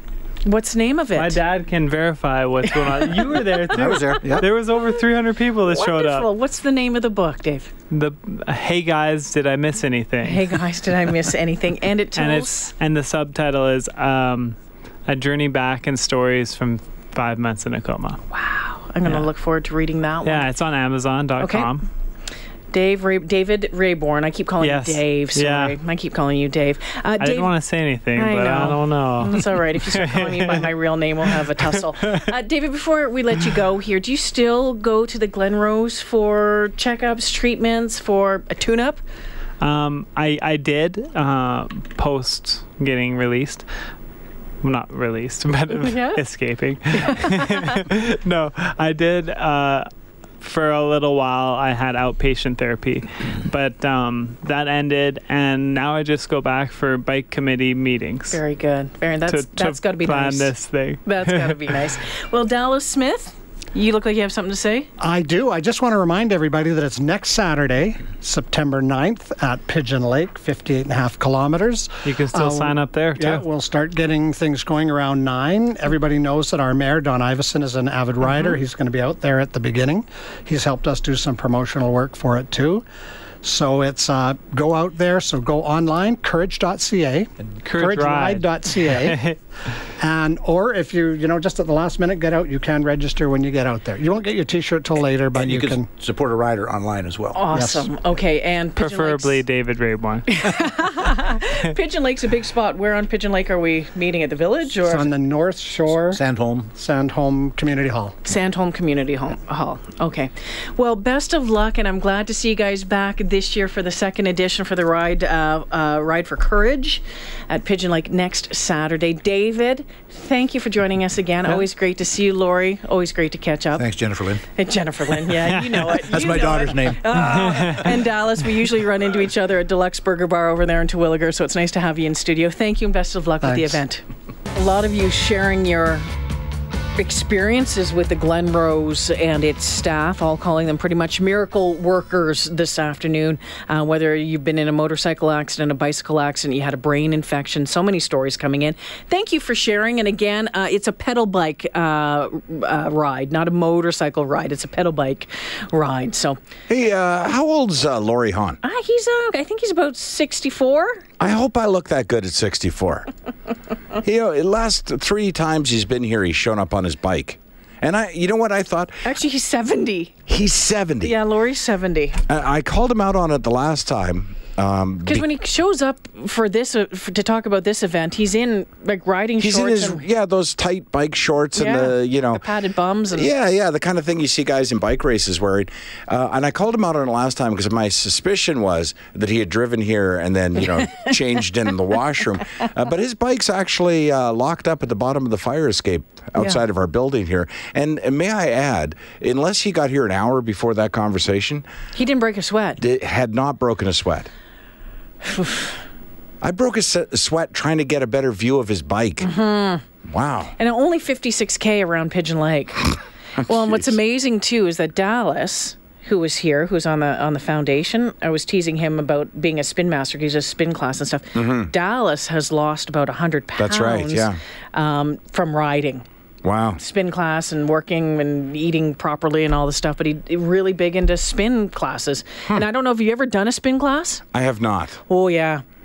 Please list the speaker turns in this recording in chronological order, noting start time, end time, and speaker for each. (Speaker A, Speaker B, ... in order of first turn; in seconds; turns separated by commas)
Speaker A: 0.4-1.4, Speaker B: 1.1-6.3, Speaker C: 3.7-4.5, Speaker A: 5.7-7.7, Speaker B: 7.9-10.6, Speaker A: 10.2-12.5, Speaker B: 12.2-18.2, Speaker A: 18.3-20.5, Speaker B: 20.2-21.9, Speaker A: 21.4-21.7, Speaker A: 22.7-27.5, Speaker B: 24.6-25.8, Speaker B: 27.2-30.7, Speaker A: 28.1-39.0, Speaker B: 31.3-31.8, Speaker B: 39.6-43.7, Speaker B: 44.6-49.9, Speaker A: 45.7-46.2, Speaker A: 47.1-47.6, Speaker B: 50.4-58.4, Speaker A: 58.3-60.5, Speaker B: 59.3-61.8, Speaker A: 61.0-64.9, Speaker D: 65.0-82.9, Speaker B: 72.0-73.4, Speaker D: 83.4-89.2, Speaker B: 87.7-89.4, Speaker D: 90.0-95.9, Speaker C: 95.3-97.5, Speaker A: 97.3-99.4, Speaker D: 97.5-97.9, Speaker B: 98.8-100.3, Speaker A: 100.3-105.1, Speaker D: 104.8-106.2, Speaker C: 106.1-106.7, Speaker D: 106.7-108.2, Speaker A: 108.2-123.9, Speaker C: 123.8-124.4, Speaker A: 124.5-134.0, Speaker B: 125.6-125.9, Speaker C: 126.0-127.2, Speaker B: 127.2-127.8, Speaker D: 133.4-133.8, Speaker A: 134.6-136.1, Speaker A: 137.0-156.4, Speaker E: 156.7-158.6, Speaker A: 158.6-161.0, Speaker E: 161.2-163.1, Speaker E: 164.0-169.0, Speaker A: 169.1-170.2, Speaker E: 170.3-171.1, Speaker A: 171.0-172.2, Speaker E: 172.3-175.2, Speaker A: 175.1-180.0, Speaker E: 179.4-182.4, Speaker A: 181.6-183.3, Speaker E: 183.1-201.7, Speaker A: 190.6-191.2, Speaker A: 201.9-202.8, Speaker E: 202.8-204.3, Speaker A: 205.2-205.8, Speaker E: 206.4-209.3, Speaker A: 209.2-209.8, Speaker E: 210.1-210.5, Speaker A: 210.6-212.8, Speaker A: 213.4-226.1, Speaker E: 213.5-213.9, Speaker E: 221.4-221.7, Speaker E: 223.6-224.4, Speaker E: 226.4-226.8, Speaker A: 226.8-234.2, Speaker E: 234.3-235.0, Speaker A: 235.1-235.6